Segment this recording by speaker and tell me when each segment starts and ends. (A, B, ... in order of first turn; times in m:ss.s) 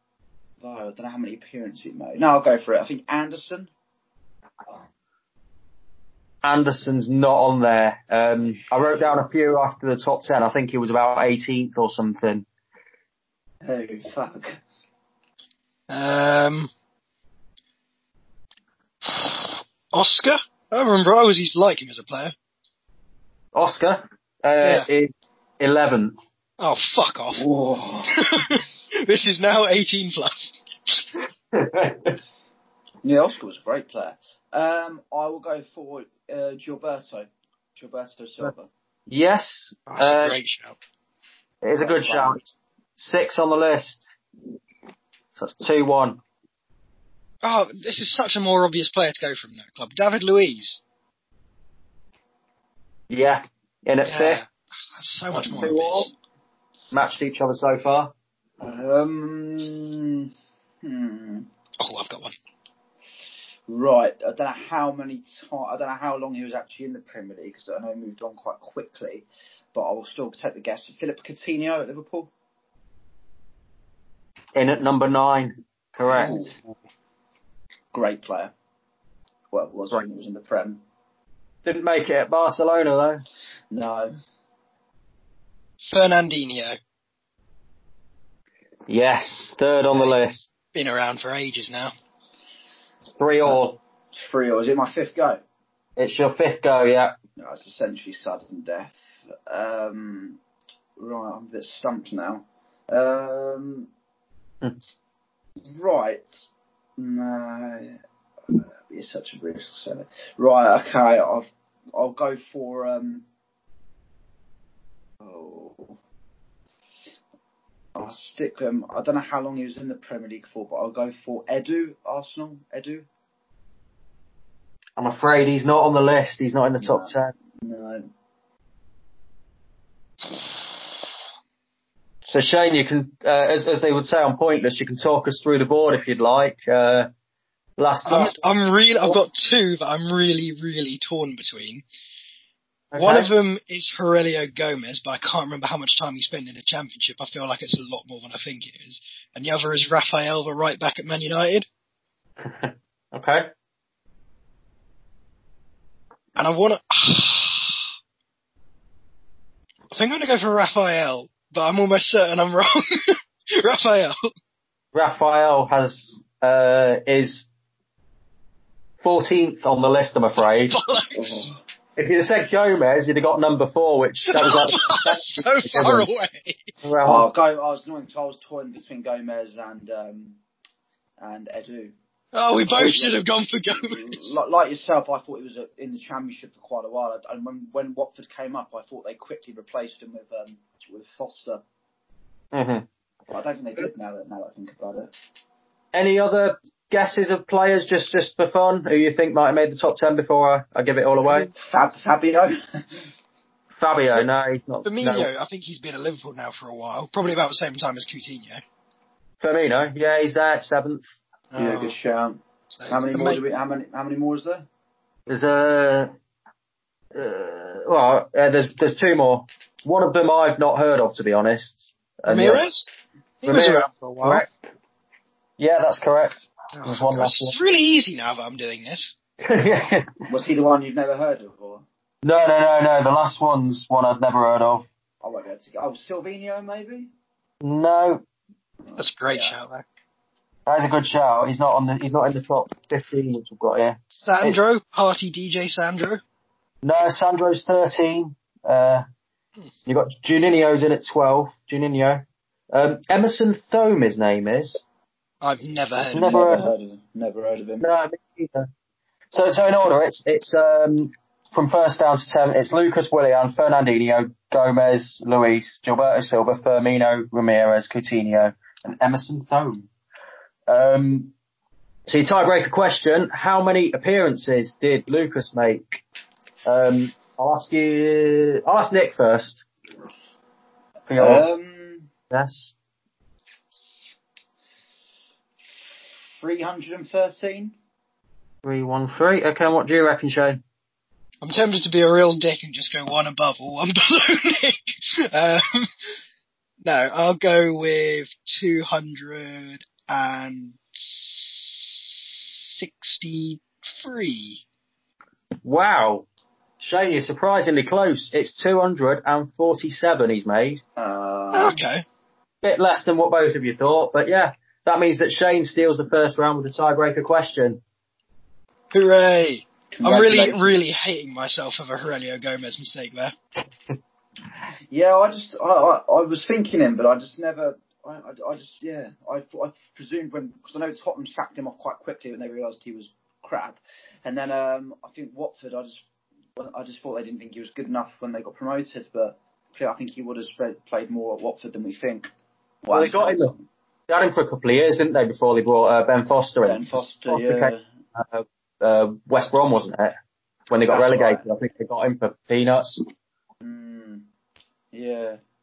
0:00.6-0:03.7 A
0:06.4-0:12.5 B
0:13.6-0:14.6 A
0:15.9-0:16.7 C
0:19.0-0:22.3 C
0:23.6-0:26.2 B
0:24.6-0:24.9 C
0:26.6-0:27.4 C
0:27.3-0:28.2 A
0:28.2-0:31.0 C
0:31.6-0:32.2 B
0:33.0-0:38.7 A
0:39.1-0:40.4 B
0:39.9-0:40.8 C
0:41.6-0:44.1 B
0:41.8-0:42.4 A
0:45.4-0:46.2 B
0:47.4-0:50.8 C
0:53.1-0:54.4 B
0:54.0-0:56.1 C
0:55.4-0:56.1 B
0:56.9-0:58.1 B
0:58.6-1:00.3 A
1:00.8-1:01.5 A
1:01.8-1:02.3 C
1:03.7-1:12.3 A
1:14.6-1:16.5 B
1:16.1-1:16.6 A
1:17.9-1:18.5 A
1:19.5-1:20.8 A
1:21.6-1:23.2 B
1:23.7-1:24.1 A
1:25.9-1:26.8 C
1:28.9-1:30.5 B
1:30.7-1:31.9 C
1:33.0-1:33.8 B
1:34.1-1:35.4 A
1:36.0-1:37.1 B
1:37.4-1:40.4 A
1:41.0-1:43.9 A
1:45.7-1:46.4 A
1:47.0-1:47.9 A
1:48.9-1:53.2 A
1:55.2-1:56.0 A
1:58.0-2:03.1 A
2:05.0-2:07.3 B
2:06.8-2:08.0 A
2:12.2-2:17.1 B
2:17.8-2:18.4 B
2:18.0-2:21.8 C
2:22.9-2:23.3 B
2:23.0-2:31.7 C
2:32.4-2:33.5 B
2:36.4-2:37.8 C
2:39.9-2:44.2 C
2:44.9-2:47.5 B
2:49.0-2:50.8 B
2:50.7-2:51.5 C
2:51.1-2:51.6 A
2:52.0-2:56.1 B
2:54.3-2:56.7 C
2:56.8-2:57.3 B
2:57.0-3:00.4 A
3:01.2-3:01.9 A
3:02.3-3:04.3 C
3:02.7-3:11.6 A
3:12.5-3:12.9 B
3:13.3-3:15.1 A
3:15.9-3:21.5 B
3:21.5-3:22.8 A
3:23.7-3:25.3 B
3:24.8-3:28.6 C
3:29.4-3:31.1 B
3:31.5-3:31.9 C
3:31.6-3:34.7 A
3:32.8-3:33.4 C
3:35.3-3:36.1 B
3:37.1-3:42.7 B
3:42.3-3:42.9 C
3:43.4-3:44.4 C
3:43.4-3:44.5 B
3:45.6-3:47.6 B
3:46.8-3:49.1 C
3:49.4-3:50.1 B
3:50.3-3:51.8 A
3:52.2-3:54.9 B
3:55.2-3:57.1 A
3:57.6-3:58.2 B
3:58.8-3:59.6 A
3:59.0-3:59.8 C
4:00.7-4:04.6 B
4:04.1-4:06.2 C
4:06.8-4:09.0 B
4:09.9-4:14.8 B
4:15.4-4:16.7 C
4:16.1-4:16.6 B
4:16.3-4:17.8 A
4:17.8-4:18.7 B
4:19.3-4:29.9 B
4:30.7-4:31.3 B
4:32.1-4:36.0 B
4:36.7-4:39.7 B
4:41.1-4:41.4 B
4:41.2-4:42.1 A
4:42.3-4:42.7 B
4:46.4-4:47.7 A
4:48.6-4:50.6 B
4:51.4-4:55.9 C
4:56.8-5:04.6 C
5:05.6-5:06.3 B
5:06.8-5:10.8 B
5:11.0-5:11.8 A
5:11.5-5:12.0 C
5:12.6-5:17.8 B
5:18.9-5:23.3 C
5:20.0-5:20.8 A
5:24.9-5:36.0 A
5:36.6-5:42.3 A
5:42.8-5:43.6 A
5:42.9-5:43.5 B
5:44.1-5:50.1 B
5:46.6-5:47.8 A
5:50.7-5:53.0 B
5:50.9-5:51.5 A
5:53.6-5:54.2 A
5:54.9-5:55.4 A